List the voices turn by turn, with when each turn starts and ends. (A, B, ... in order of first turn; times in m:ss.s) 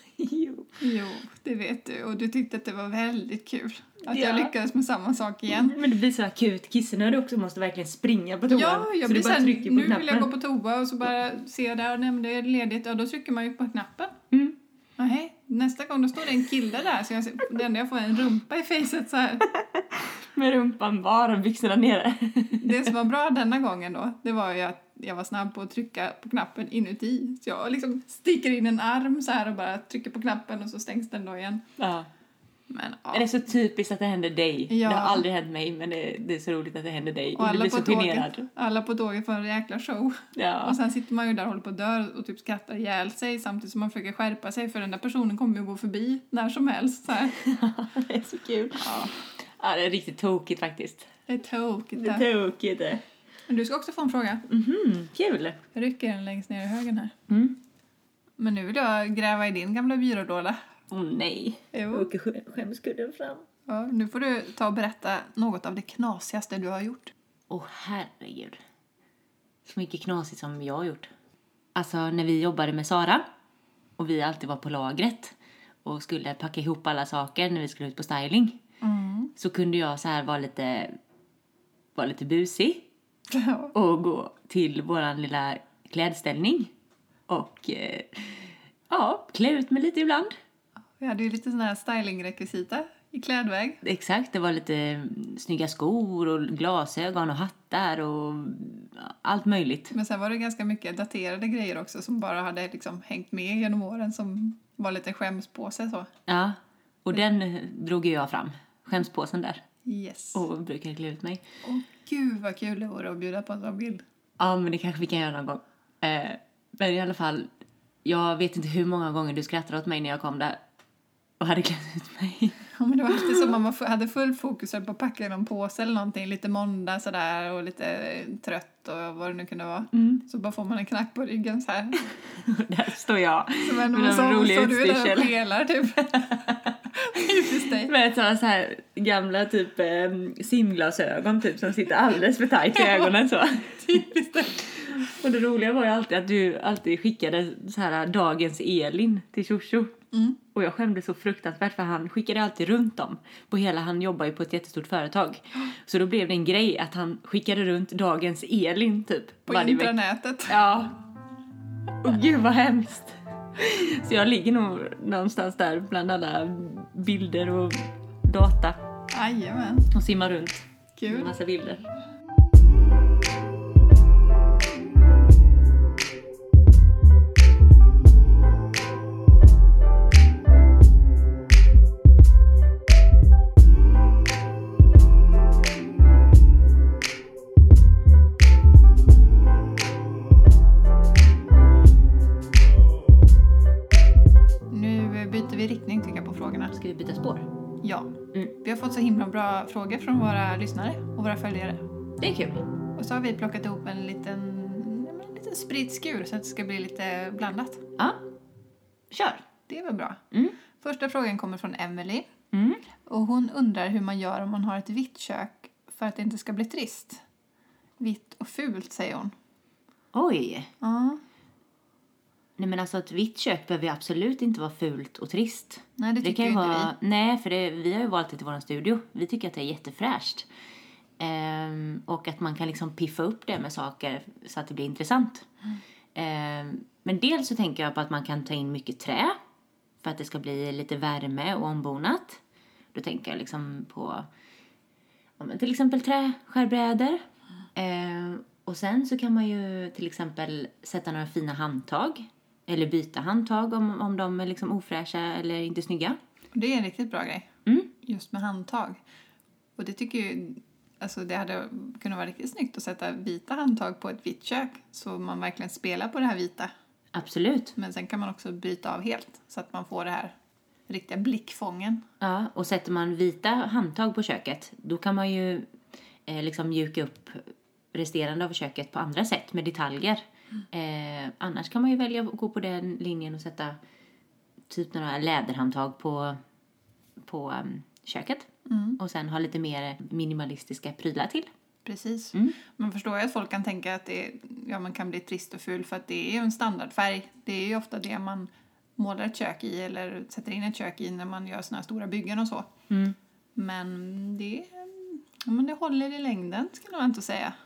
0:00.2-0:00.8 A
0:00.8-0:05.8 B
0:04.1-0:04.5 A
0:05.5-0:10.3 A
0:08.5-0:14.2 B
0:14.3-0:14.6 A
0:15.0-0:19.5 B
0:19.5-0:22.9 A
0:22.6-0:31.6 B
0:31.8-0:32.1 A
0:32.7-0:33.3 B
0:33.1-0:38.5 A
0:34.7-0:35.3 B
0:37.4-0:47.4 B
0:40.4-0:40.8 A
0:47.4-0:51.1 A
0:48.8-0:49.1 B
0:51.3-0:52.3 B
0:52.0-0:53.0 A
0:53.5-0:54.4 B
0:54.5-0:55.6 A
0:55.7-0:57.2 B
0:57.3-0:57.6 A
0:58.4-1:00.6 B
1:00.9-1:03.4 A
1:01.7-1:02.1 B
1:03.7-1:07.1 B
1:07.5-1:08.6 A
1:09.7-1:11.1 A
1:11.8-1:13.3 A
1:14.0-1:18.6 A
1:18.8-1:19.3 B
1:19.4-1:21.0 A
1:22.0-1:22.9 A
1:23.3-1:23.7 B
1:23.7-1:26.7 A
1:27.3-1:30.4 A
1:31.0-1:33.8 B
1:33.8-1:39.9 A
1:39.9-1:46.1 B
1:46.3-1:49.6 A
1:49.8-1:50.4 B
1:50.3-1:51.4 A
1:51.6-1:54.0 B
1:54.4-1:57.5 A
1:58.0-2:00.6 A
2:01.4-2:02.6 A
2:02.8-2:12.1 B
2:09.9-2:10.2 A
2:12.3-2:15.3 A
2:13.6-2:16.4 B
2:16.0-2:16.8 A
2:16.9-2:17.9 B
2:17.8-2:30.0 A
2:23.8-2:24.6 B
2:30.1-2:30.4 B
2:30.5-2:40.0 A
2:39.5-2:40.6 B
2:40.5-2:41.0 A
2:42.0-2:48.8 A
2:49.1-2:49.9 B
2:49.9-2:51.9 A
2:51.0-2:51.3 B
3:14.7-3:16.7 B
3:16.7-3:17.5 A
3:17.8-3:21.8 B
3:22.2-3:22.7 A
3:23.0-3:27.8 B
3:29.1-3:29.4 A
3:29.7-3:30.2 B
3:30.7-3:32.3 B
3:32.5-3:32.8 A
3:33.0-3:37.2 B
3:38.0-3:39.3 B
3:40.1-3:40.7 A
3:40.8-3:41.2 B
3:42.6-3:50.5 A
3:46.0-3:46.9 B
3:51.2-3:55.5 A
3:56.2-3:59.4 A
4:00.0-4:02.4 A
4:02.9-4:04.3 A
4:05.4-4:07.2 A
4:07.8-4:16.2 A
4:16.5-4:17.5 B
4:17.7-4:17.9 A
4:18.0-4:19.0 B
4:19.8-4:26.7 B
4:27.1-4:27.8 A
4:27.8-4:30.4 B
4:30.9-4:32.0 B
4:32.2-4:35.7 A
4:36.3-4:43.8 A
4:44.7-4:46.4 A
4:47.2-4:51.5 A
4:48.7-4:49.0 B
4:51.8-5:02.7 B
5:02.9-5:03.2 A
5:03.6-5:07.5 B